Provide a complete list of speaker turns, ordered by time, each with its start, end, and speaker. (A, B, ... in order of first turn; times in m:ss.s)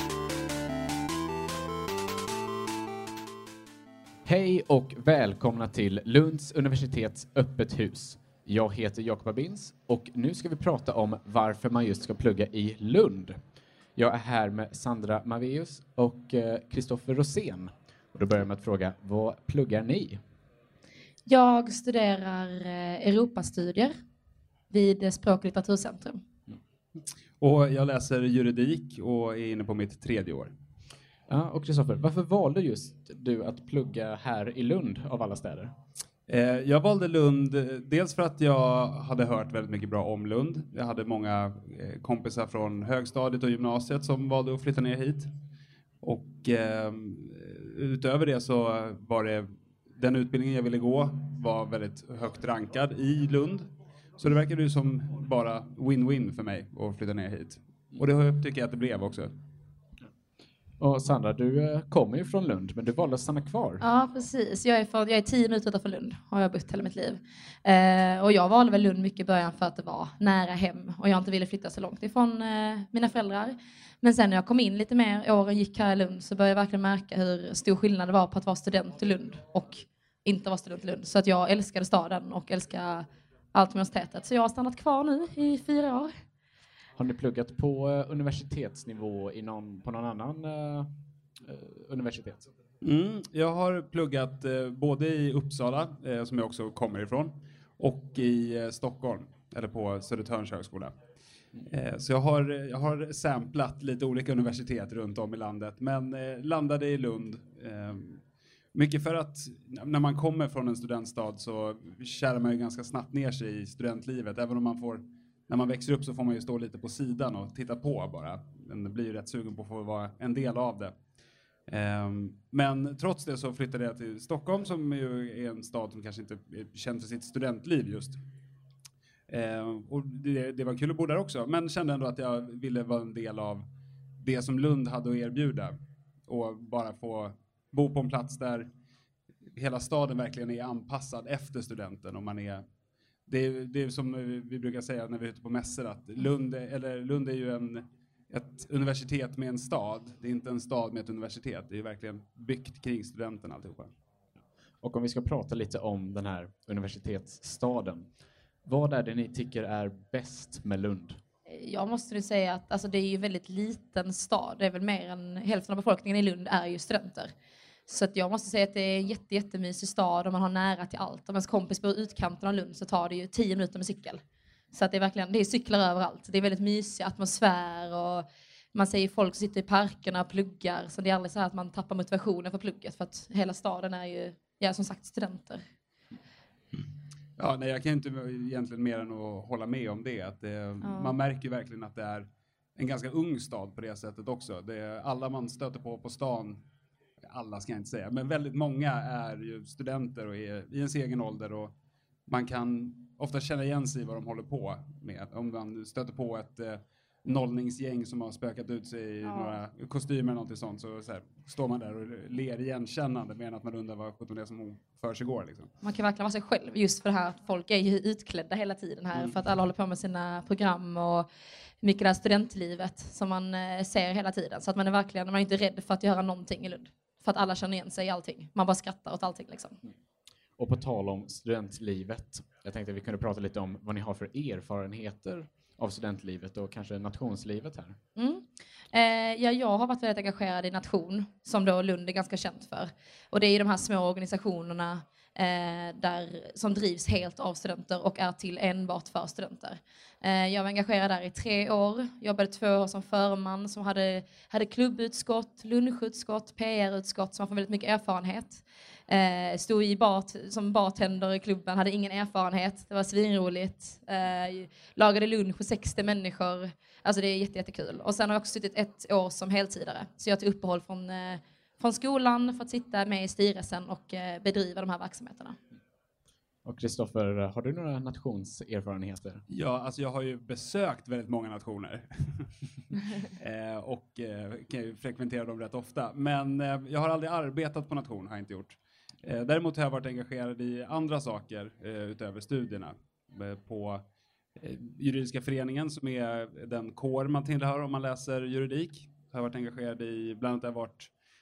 0:04.2-0:13.4 A
0:14.0-0:20.2 A
0:21.2-0:23.9 B
0:24.7-0:26.2 B
0:27.4-0:30.5 C
0:31.3-0:35.7 A
0:36.3-0:45.3 C
0:46.0-0:59.3 C
1:00.8-1:03.8 A
1:03.8-1:26.1 B
1:27.0-1:30.9 A
1:31.4-1:32.5 A
1:32.8-1:40.9 C
1:41.7-1:48.2 C
1:48.7-2:00.9 C
2:01.7-2:08.2 C
2:09.3-2:13.6 C
2:14.2-2:15.8 C
2:16.3-2:18.7 C
2:19.6-2:22.6 C
2:23.3-2:33.9 C
2:34.8-2:38.1 A
2:38.6-2:41.2 A
2:41.5-2:47.3 B
2:47.9-3:05.6 B
3:07.4-3:16.6 C
3:10.8-3:11.1 B
3:17.2-3:21.7 C
3:22.3-3:35.7 C
3:29.2-3:29.6 B
3:35.8-3:41.3 B
3:41.8-3:49.8 B
3:50.6-3:58.0 A
3:58.2-4:35.6 B
4:36.6-4:39.4 A
4:39.5-4:42.5 C
4:43.2-4:54.0 C
4:54.6-5:01.1 C